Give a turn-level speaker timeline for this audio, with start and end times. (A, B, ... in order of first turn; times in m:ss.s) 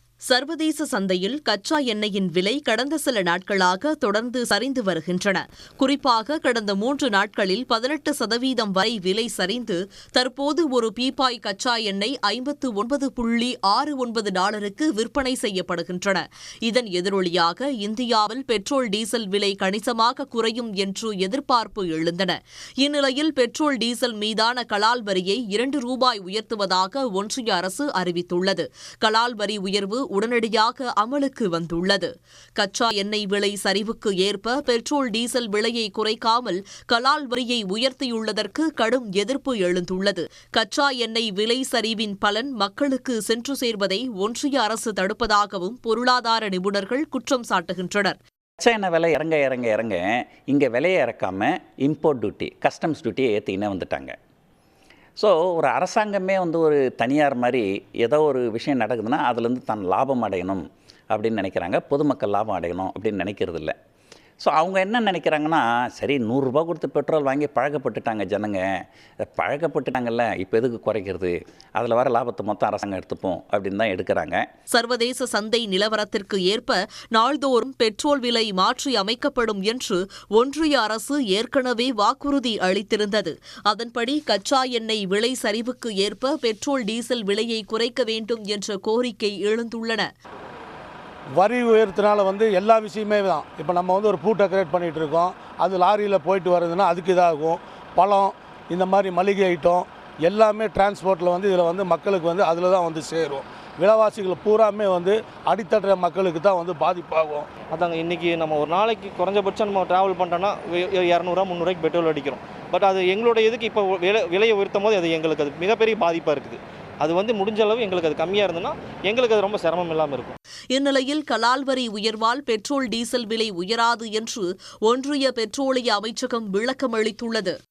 0:00.3-0:48.2 A
0:48.6-0:54.2 B
0:55.2-1:03.7 B
1:04.4-1:08.6 B
1:09.2-1:14.4 B
1:14.7-1:30.1 A
1:31.4-1:47.5 C
1:47.7-2:00.4 D
2:00.7-2:07.5 A